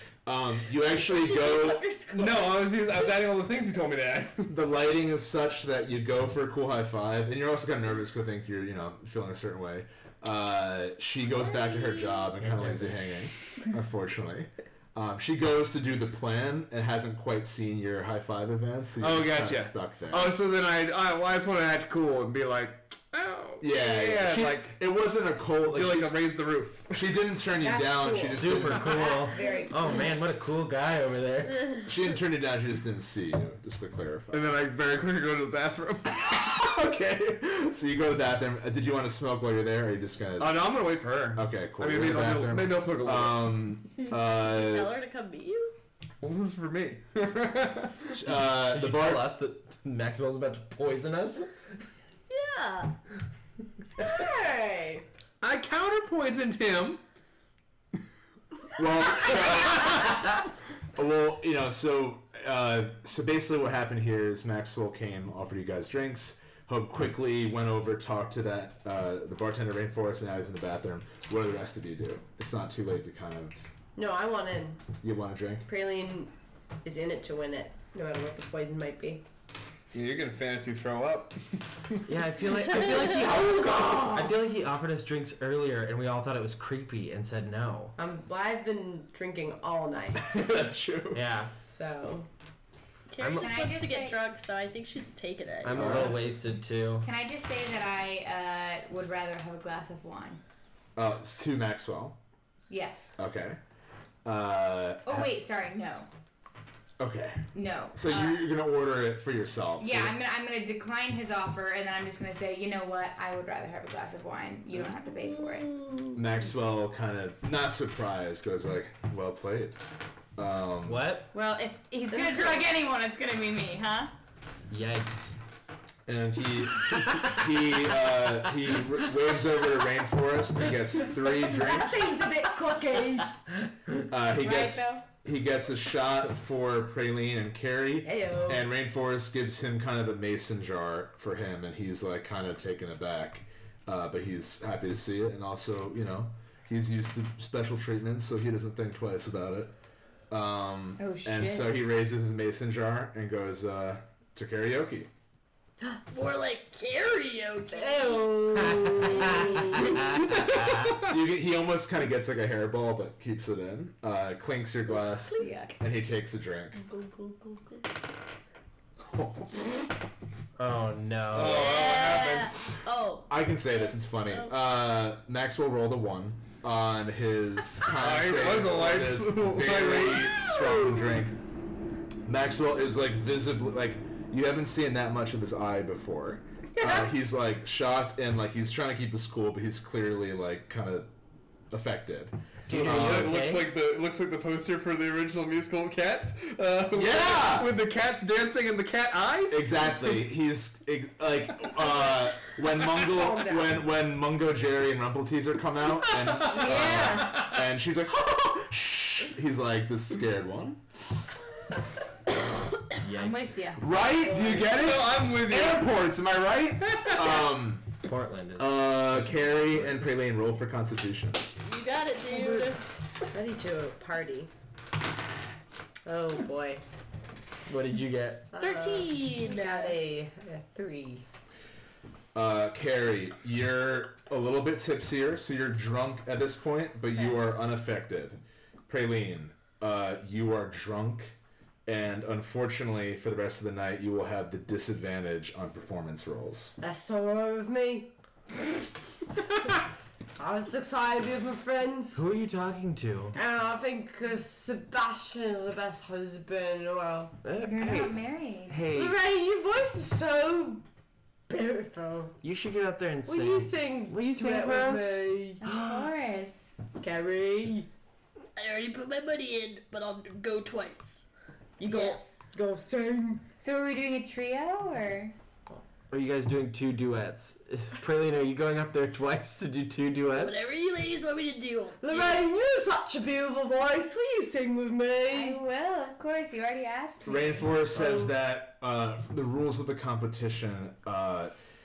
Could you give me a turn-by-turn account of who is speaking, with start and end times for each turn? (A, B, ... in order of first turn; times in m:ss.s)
0:00.3-0:01.9 A
0:02.1-0:04.6 B
0:04.5-0:20.4 A
0:12.4-0:13.2 C
0:19.0-0:24.8 B
0:23.6-0:26.2 A
0:25.7-0:27.0 B
0:26.9-0:29.0 A
0:27.6-0:30.0 D
0:28.2-0:31.9 C
0:31.9-0:34.5 A
0:34.3-0:36.2 B
0:36.2-0:40.7 A
0:40.4-0:43.6 B
0:41.3-0:45.0 A
0:44.0-0:45.8 E
0:46.2-0:48.1 B
0:48.1-0:49.3 A
0:48.3-0:51.5 C
0:52.3-0:52.9 E
0:54.0-0:55.0 D
0:55.4-0:57.0 B
0:58.8-1:00.4 A
1:01.0-1:13.7 A
1:14.0-1:14.8 D
1:15.0-1:15.7 A
1:15.7-1:16.3 D
1:16.8-1:19.2 D
1:19.9-1:22.0 B
1:22.1-1:28.0 C
1:23.5-1:24.3 A
1:28.0-1:30.4 D
1:30.3-1:31.2 A
1:31.1-1:31.5 C
1:31.6-1:32.3 D
1:33.1-1:36.0 E
1:33.2-1:33.6 C
1:33.4-1:34.2 F
1:35.6-1:37.1 C
1:35.7-1:36.2 A
1:37.0-1:40.4 F
1:41.0-1:42.2 A
1:42.7-1:43.2 F
1:43.2-1:43.6 A
1:44.2-1:45.3 A
1:45.0-1:46.1 F
1:47.0-1:50.2 A
1:47.5-1:48.5 F
1:49.8-1:55.7 F
1:56.2-1:59.8 A
2:00.4-2:01.1 A
2:00.8-2:01.3 C
2:01.3-2:04.1 F
2:02.1-2:02.6 D
2:04.7-2:05.4 C
2:06.1-2:12.3 A
2:11.3-2:13.4 D
2:14.1-2:29.7 A
2:14.4-2:15.0 F
2:18.0-2:18.7 D
2:30.3-2:35.1 A
2:31.0-2:31.8 F
2:36.1-2:39.9 E
2:37.7-2:40.1 D
2:40.1-2:40.9 C
2:40.2-2:41.1 B
2:40.9-2:46.8 A
2:45.3-2:45.6 E
2:45.4-2:45.8 F
2:46.8-2:47.9 E
2:49.1-2:49.6 A
2:50.6-2:51.9 C
2:51.3-2:52.6 B
2:51.4-2:53.3 E
2:53.3-3:01.4 A
2:53.9-2:54.5 E
2:57.9-3:00.7 B
3:02.3-3:11.1 A
3:06.8-3:07.1 D
3:11.7-3:13.4 A
3:12.6-3:13.7 C
3:12.6-3:19.9 B
3:16.9-3:17.8 A
3:19.5-3:30.8 A
3:23.0-3:23.8 D
3:26.1-3:27.6 B
3:26.4-3:27.5 F
3:33.0-3:33.6 C
3:33.1-3:34.0 F
3:33.8-3:37.9 A
3:34.0-3:34.7 D
3:34.6-3:36.0 B
3:38.0-3:39.8 C
3:38.6-3:41.5 A
3:41.6-3:42.8 E
3:42.3-3:42.7 D
3:43.3-3:44.5 D
3:46.1-3:46.8 D
3:47.7-3:48.5 C
3:48.5-3:51.3 D
3:48.6-3:50.0 E
3:52.3-4:01.4 A
4:01.9-4:06.8 A
4:06.8-4:08.1 D
4:10.4-4:12.2 D
4:12.2-4:13.4 C
4:13.4-4:17.4 D
4:17.4-4:19.2 C
4:17.6-4:18.9 F
4:18.9-4:20.8 D
4:21.5-4:22.4 D
4:22.4-4:25.2 C
4:23.3-4:25.6 D
4:25.6-4:26.7 F
4:26.9-4:27.9 D
4:28.6-4:31.3 E
4:31.8-4:33.4 D
4:31.8-4:32.2 E
4:33.6-4:35.4 F
4:36.1-4:40.6 C
4:40.3-4:42.5 E
4:42.0-4:45.6 D
4:45.3-4:47.8 F
4:47.2-4:51.5 A
4:48.0-4:48.3 D